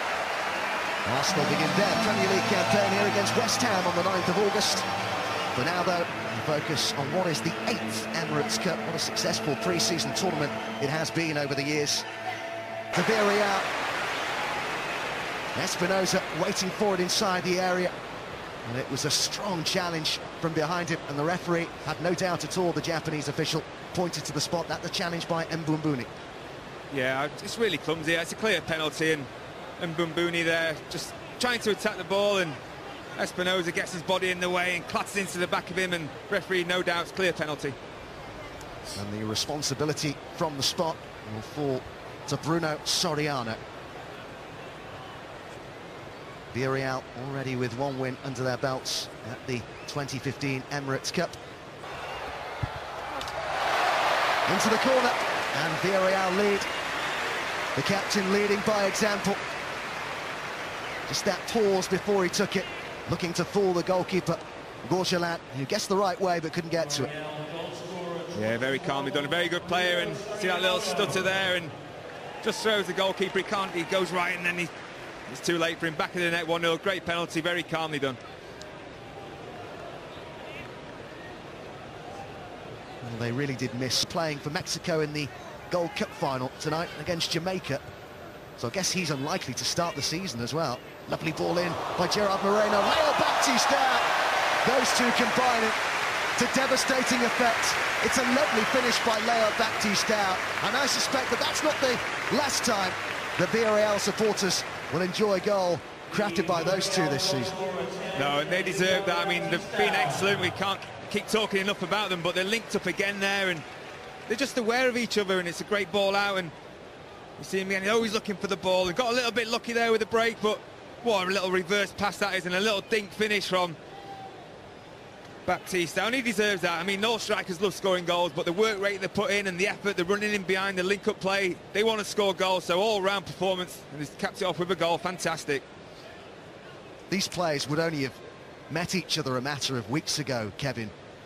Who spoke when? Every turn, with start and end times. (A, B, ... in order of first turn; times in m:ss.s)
0:01.0-0:04.9 A
0:05.5-0:12.0 A
0:12.9-0:13.7 A
0:15.5-0:17.9 A
0:18.6-0:26.1 A
0:26.9-0:32.6 B
0:33.2-0:37.8 B
0:38.9-0:43.6 A
0:46.5-0:51.4 A
0:54.5-0:56.7 A
0:57.7-0:59.4 A
1:01.1-1:07.2 A
1:08.3-1:11.7 B
1:12.4-1:14.7 B
1:15.3-1:18.2 B
1:23.0-1:27.8 A
1:28.6-1:34.0 A
1:34.6-1:35.8 A
1:36.4-1:47.6 A
1:48.1-1:53.6 B
1:54.3-1:56.5 B
1:57.4-2:03.8 B
2:05.4-2:15.6 B
2:17.1-2:18.2 A
2:18.7-2:20.9 A